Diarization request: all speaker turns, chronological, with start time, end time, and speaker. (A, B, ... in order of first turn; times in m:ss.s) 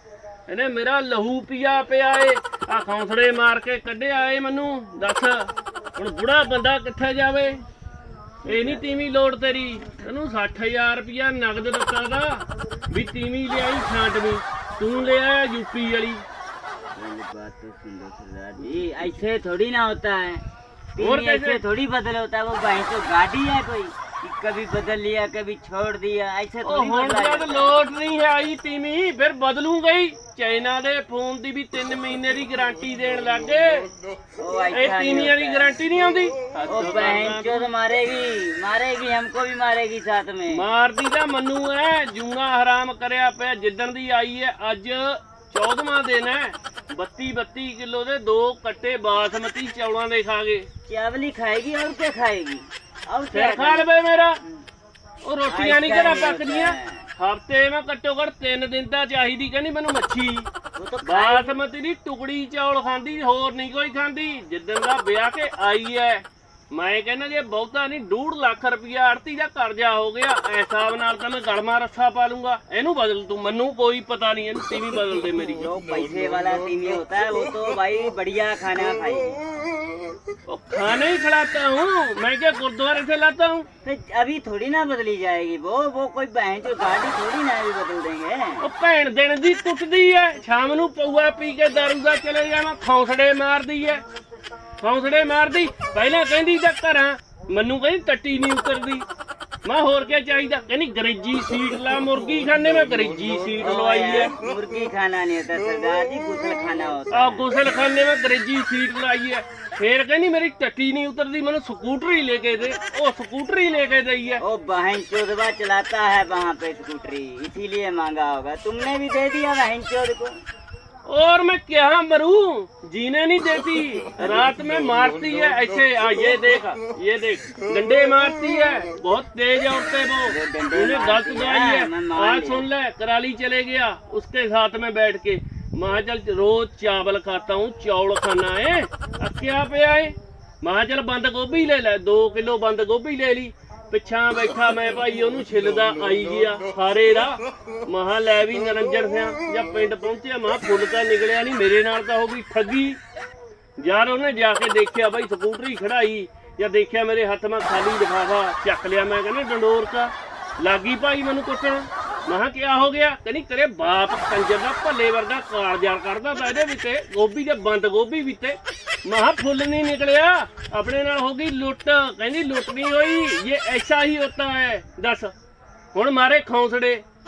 0:00.5-0:07.6 A
0:08.4-0:08.8 B
0:08.5-0:16.2 A
0:17.0-0:20.4 B
0:21.0-0:27.8 B
0:21.0-0:21.6 A
0:26.6-0:33.9 A
0:34.4-0:35.8 B
0:34.7-0:37.7 A
0:36.7-0:40.6 B
0:40.5-0:50.7 A
0:50.9-0:53.9 B
0:53.3-0:54.4 A
0:55.2-1:00.5 A
0:55.5-0:57.1 B
1:00.8-1:01.6 B
1:01.0-1:15.7 A
1:15.6-1:19.4 B
1:20.5-1:23.7 A
1:23.8-1:28.7 B
1:28.6-1:34.0 A
1:34.8-1:39.1 A
1:39.6-1:44.3 A
1:43.6-1:47.5 B
1:47.1-1:54.4 A
1:54.4-2:00.4 B
2:01.1-2:33.0 A
2:04.2-2:04.5 B
2:10.3-2:12.7 B
2:33.8-2:55.3 A
2:55.9-2:57.0 A